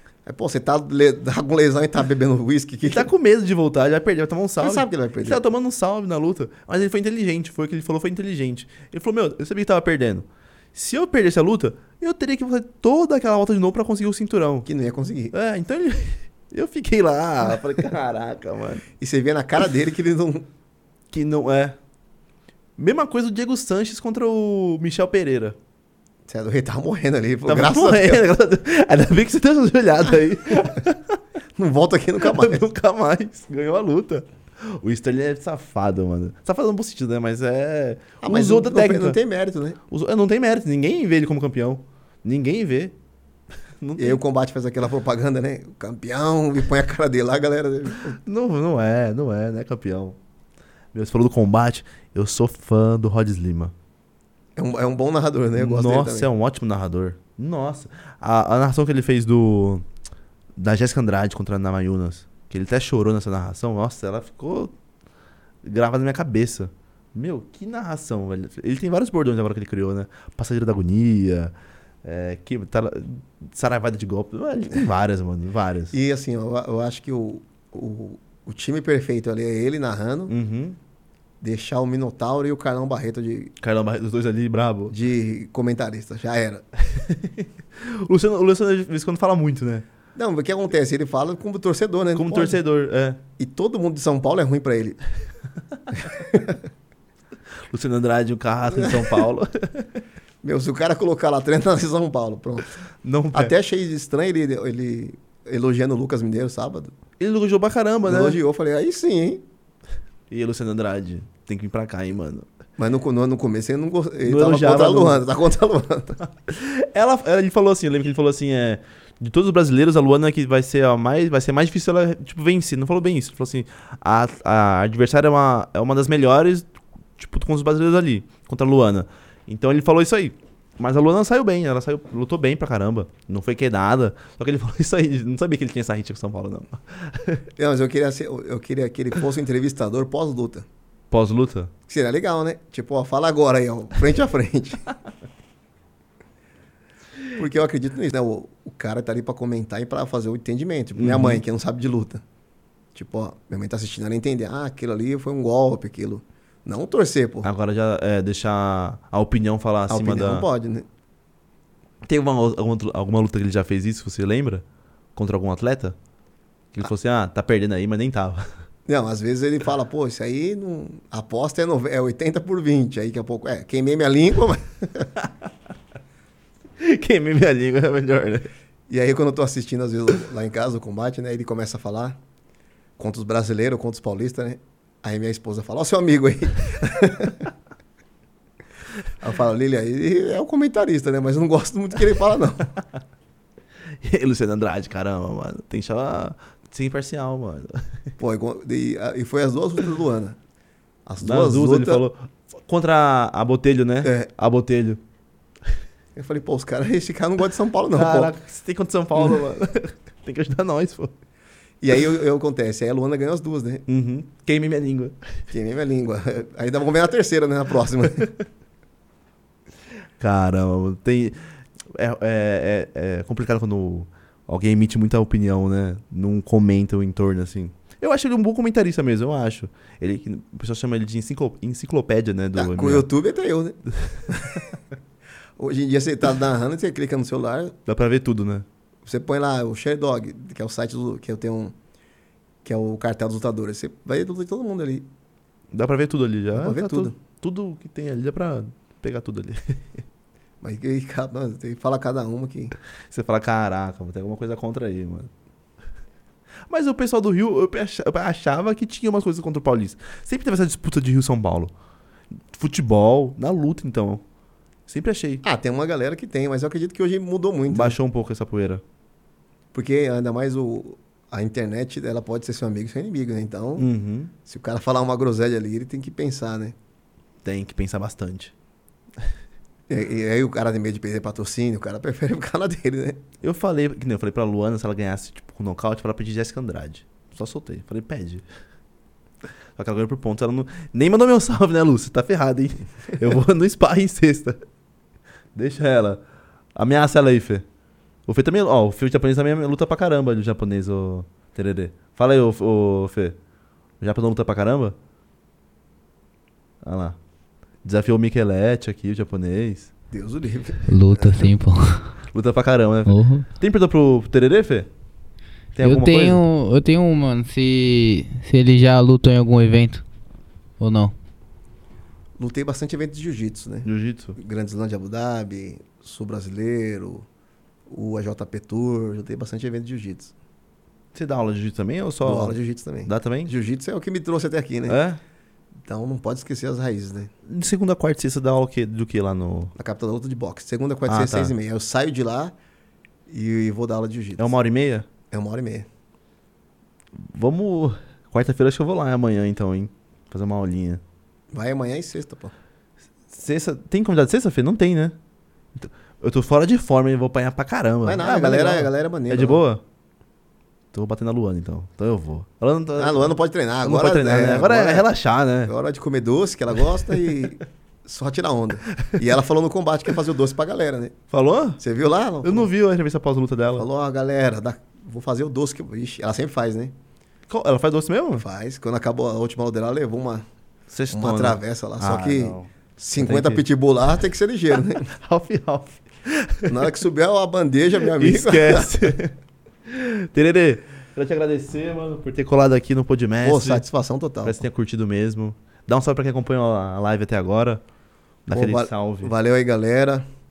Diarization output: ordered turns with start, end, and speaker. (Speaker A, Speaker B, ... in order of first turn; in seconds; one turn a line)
Speaker A: 0.3-3.1
Speaker B: 2.9-14.7
Speaker A: 4.6-5.5
Speaker A: 14.7-15.3
Speaker B: 15.3-18.8
Speaker A: 19.0-20.5
Speaker B: 21.1-21.8
Speaker B: 22.8-25.6
Speaker A: 26.3-28.2
Speaker B: 27.5-31.2
Speaker A: 31.6-32.6
Speaker B: 32.2-39.2
Speaker A: 38.2-39.8
Speaker B: 39.9-43.0
Speaker B: 43.8-44.2
Speaker A: 44.0-48.2
Speaker B: 48.1-50.2
Speaker B: 50.9-53.7
Speaker A: 54.6-56.3
Speaker B: 55.6-59.9
Speaker B: 60.6-64.7
Speaker B: 65.6-76.0
Speaker A: 75.9-80.3
Speaker B: 80.3-80.8
Speaker A: 81.4-83.5
Speaker B: 83.6-85.0
Speaker A: 84.9-86.7
Speaker B: 86.9-89.8
Speaker A: 90.2-92.6
Speaker B: 92.1-93.2
Speaker A: 93.4-95.0
Speaker A: 95.9-96.6
Speaker B: 97.7-99.9
Speaker A: 98.7-99.2
Speaker A: 100.4-102.7
Speaker B: 103.0-103.5
Speaker A: 103.3-107.0
Speaker B: 107.2-108.4
Speaker A: 108.0-109.5
Speaker B: 110.3-112.5
Speaker A: 112.8-116.2
Speaker B: 114.2-115.2
Speaker B: 116.2-137.4
Speaker A: 137.6-140.7
Speaker B: 141.1-141.7
Speaker A: 141.9-144.9
Speaker A: 147.4-152.2
Speaker B: 150.9-151.4
Speaker A: 152.9-157.5
Speaker B: 157.4-160.5
Speaker A: 159.9-160.9
Speaker B: 162.1-166.0
Speaker B: 166.7-168.5
Speaker A: 168.9-175.1
Speaker B: 176.8-178.5
Speaker A: 178.9-182.2
Speaker A: 183.0-187.5
Speaker A: 189.2-192.7
Speaker B: 194.0-197.9
Speaker A: 198.2-200.4
Speaker A: 201.1-202.1
Speaker B: 201.2-205.0
Speaker A: 204.0-204.3
Speaker A: 206.2-208.3
Speaker B: 207.9-211.1
Speaker A: 211.8-213.8
Speaker B: 213.9-215.2
Speaker A: 215.5-218.3
Speaker B: 220.2-221.4
Speaker B: 221.9-233.1
Speaker A: 232.6-234.7
Speaker B: 234.1-234.7
Speaker A: 235.6-237.8
Speaker B: 237.9-238.7
Speaker A: 239.1-241.8
Speaker A: 242.6-245.1
Speaker B: 245.7-250.0
Speaker A: 246.5-247.2
Speaker A: 250.6-252.8
Speaker B: 253.1-255.3
Speaker B: 256.7-261.7
Speaker B: 262.5-264.2
Speaker B: 264.9-265.4
Speaker A: 265.4-268.0
Speaker B: 267.7-268.8
Speaker A: 269.7-273.9
Speaker B: 273.8-274.3
Speaker A: 274.5-276.8
Speaker B: 277.4-278.5
Speaker A: 279.9-283.2
Speaker B: 283.4-288.4
Speaker B: 289.8-294.6
Speaker B: 295.6-296.2
Speaker B: 296.8-297.6
Speaker B: 298.3-303.4
Speaker B: 304.0-305.0
Speaker B: 306.8-307.2
Speaker B: 307.8-309.9
Speaker A: 310.1-311.5
Speaker C: 310.9-312.2
Speaker B: 312.3-314.9
Speaker C: 313.1-313.5
Speaker B: 315.8-316.4
Speaker C: 315.8-320.0
Speaker C: 320.8-321.1
Speaker A: 322.4-327.3
Speaker B: 323.9-324.4
Speaker A: 327.9-330.3
Speaker B: 331.1-333.5
Speaker A: 332.2-335.0
Speaker B: 334.9-335.2
Speaker A: 335.8-337.3
Speaker B: 337.5-339.7
Speaker A: 339.8-342.6
Speaker B: 341.1-341.6
Speaker A: 343.3-344.5
Speaker B: 344.4-345.1
Speaker A: 345.3-345.9
Speaker B: 347.2-351.0
Speaker A: 351.5-352.5
Speaker B: 353.3-355.2
Speaker B: 355.8-359.8
Speaker A: 358.0-359.6
Speaker B: 360.9-365.7
Speaker A: 363.0-365.1
Speaker A: 365.7-371.2
Speaker B: 371.3-371.8
Speaker A: 371.8-372.7
Speaker B: 372.4-373.9
Speaker A: 373.8-376.9
Speaker B: 377.5-378.4
Speaker A: 378.4-380.4
Speaker B: 380.9-383.6
Speaker A: 381.1-385.1
Speaker B: 385.0-386.9
Speaker A: 386.7-389.1
Speaker B: 388.1-389.4
Speaker B: 389.9-393.8
Speaker A: 393.4-394.6
Speaker B: 394.4-397.8
Speaker B: 398.5-399.3
Speaker A: 398.5-400.2